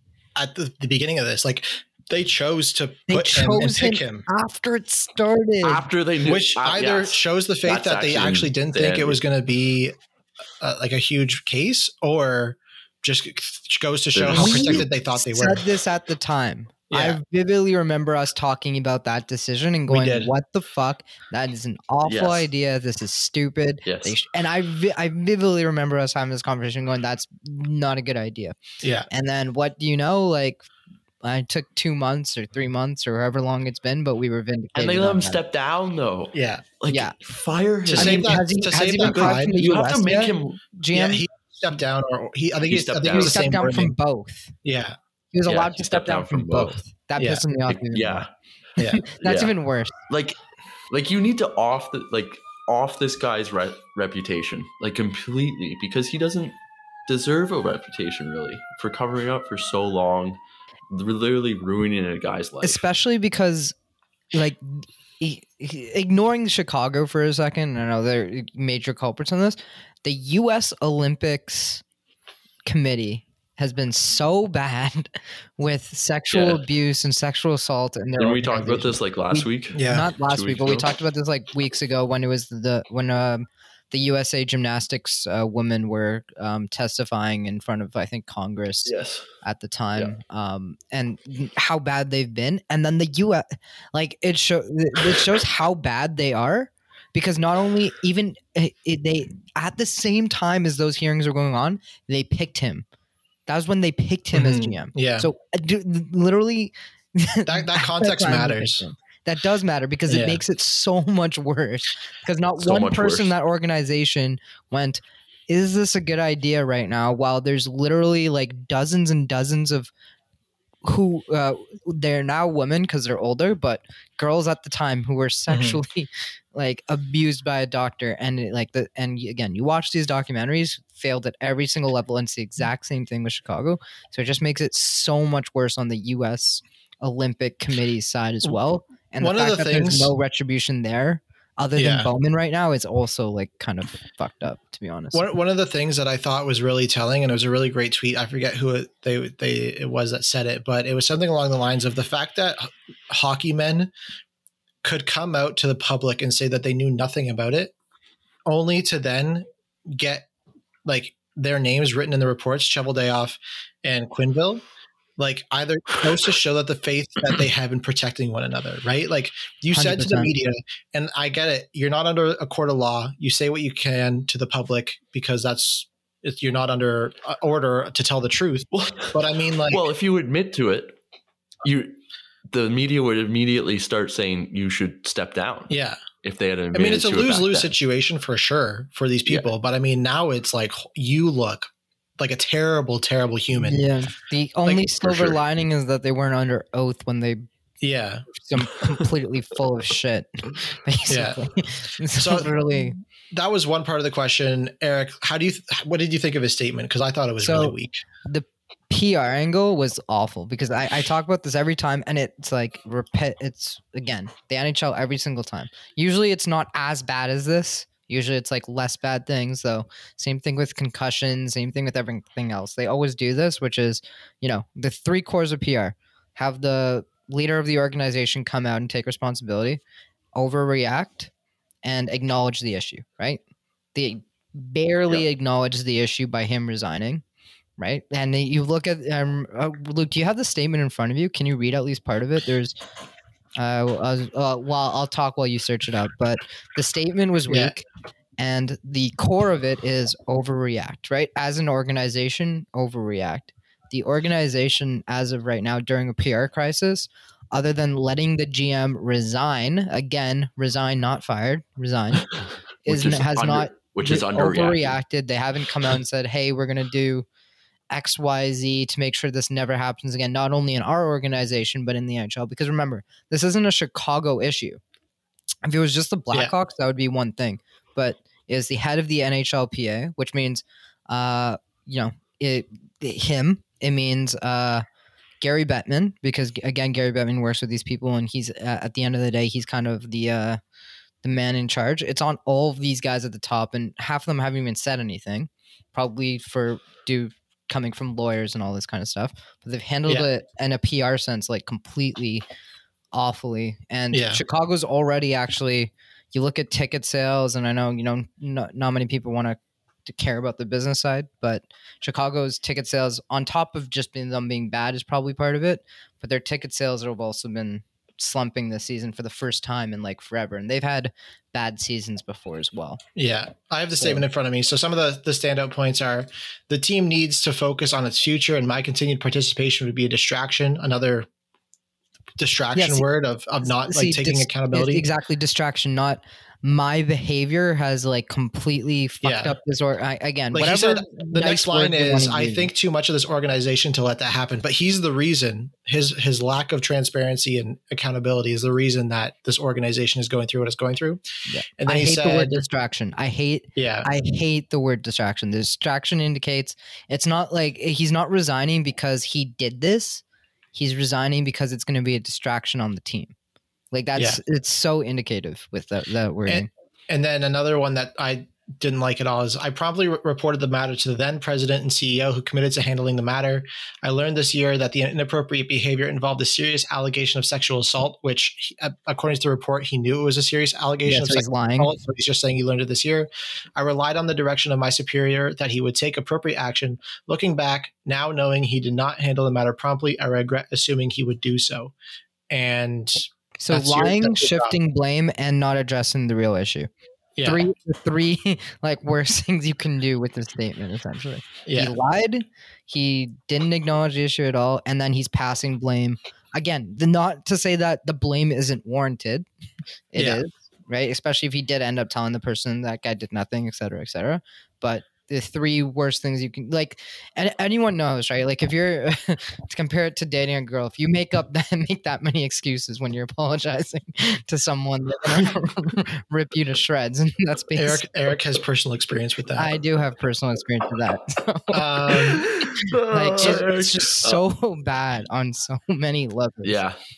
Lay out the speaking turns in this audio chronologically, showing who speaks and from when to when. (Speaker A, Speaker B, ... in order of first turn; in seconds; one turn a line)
Speaker A: 0.4-4.3
Speaker B: 3.1-5.9
Speaker C: 5.6-9.2
Speaker A: 6.2-9.9
Speaker A: 10.6-15.6
Speaker C: 14.1-14.9
Speaker B: 14.3-28.6
Speaker A: 16.9-17.2
Speaker A: 19.9-20.3
Speaker C: 22.1-22.5
Speaker C: 23.9-24.2
Speaker A: 28.8-29.1
Speaker B: 29.1-30.7
Speaker B: 31.2-35.4
Speaker C: 34.8-38.5
Speaker A: 36.3-36.6
Speaker B: 36.9-37.2
Speaker B: 37.9-41.2
Speaker A: 37.9-39.5
Speaker C: 39.0-40.6
Speaker A: 40.9-43.9
Speaker C: 42.7-43.6
Speaker B: 43.1-44.5
Speaker A: 44.6-45.0
Speaker B: 45.3-48.2
Speaker C: 45.5-46.8
Speaker A: 47.2-47.5
Speaker C: 47.7-48.3
Speaker B: 48.9-50.0
Speaker C: 49.2-49.5
Speaker C: 50.1-50.4
Speaker C: 50.9-62.8
Speaker B: 62.6-63.8
Speaker B: 64.3-71.8
Speaker B: 72.7-102.8
Speaker C: 76.3-76.6
Speaker C: 78.2-80.9
Speaker A: 79.7-80.1
Speaker C: 88.9-89.3
Speaker B: 103.5-119.9
Speaker A: 104.3-105.3
Speaker A: 107.5-108.8
Speaker A: 110.1-110.4
Speaker C: 112.6-113.3
Speaker B: 120.8-145.3
Speaker A: 125.5-125.8
Speaker A: 139.2-140.1
Speaker A: 141.8-142.1
Speaker A: 145.1-153.9
Speaker A: 154.8-157.7
Speaker A: 158.5-160.3
Speaker A: 160.9-164.6
Speaker A: 165.2-179.8
Speaker B: 169.7-170.3
Speaker C: 178.7-179.2
Speaker C: 179.7-181.0
Speaker C: 181.6-187.7
Speaker A: 185.7-186.0
Speaker A: 186.7-193.8
Speaker B: 193.6-197.5
Speaker A: 194.7-195.4
Speaker A: 197.8-198.3
Speaker B: 198.4-203.0
Speaker A: 201.1-201.4
Speaker A: 202.2-202.5
Speaker A: 203.3-208.0
Speaker B: 207.4-229.8
Speaker B: 230.3-231.3
Speaker B: 231.8-233.4
Speaker B: 233.9-237.2
Speaker B: 237.8-242.8
Speaker B: 243.6-247.8
Speaker B: 248.4-262.3
Speaker C: 262.9-264.9
Speaker B: 262.9-267.3
Speaker B: 267.9-274.8
Speaker B: 275.6-284.8
Speaker B: 285.4-290.6
Speaker B: 291.2-302.4
Speaker B: 303.1-323.0
Speaker A: 304.1-304.4
Speaker A: 323.2-331.3
Speaker A: 332.4-335.1
Speaker B: 332.8-333.1
Speaker B: 333.6-342.7
Speaker A: 339.2-339.6
Speaker A: 340.5-351.2
Speaker B: 351.5-360.2
Speaker A: 351.8-352.6
Speaker A: 353.8-354.1
Speaker B: 360.7-363.3
Speaker B: 363.9-366.7
Speaker A: 366.5-391.9
Speaker B: 381.1-381.9
Speaker A: 392.5-394.8
Speaker B: 393.6-396.9
Speaker A: 397.4-397.6
Speaker B: 397.4-409.5
Speaker A: 401.6-402.0
Speaker B: 410.1-428.1
Speaker A: 410.1-410.4
Speaker A: 427.8-429.8
Speaker B: 429.6-432.3
Speaker A: 431.7-432.4
Speaker C: 432.1-434.4
Speaker B: 433.1-436.8
Speaker C: 436.6-437.0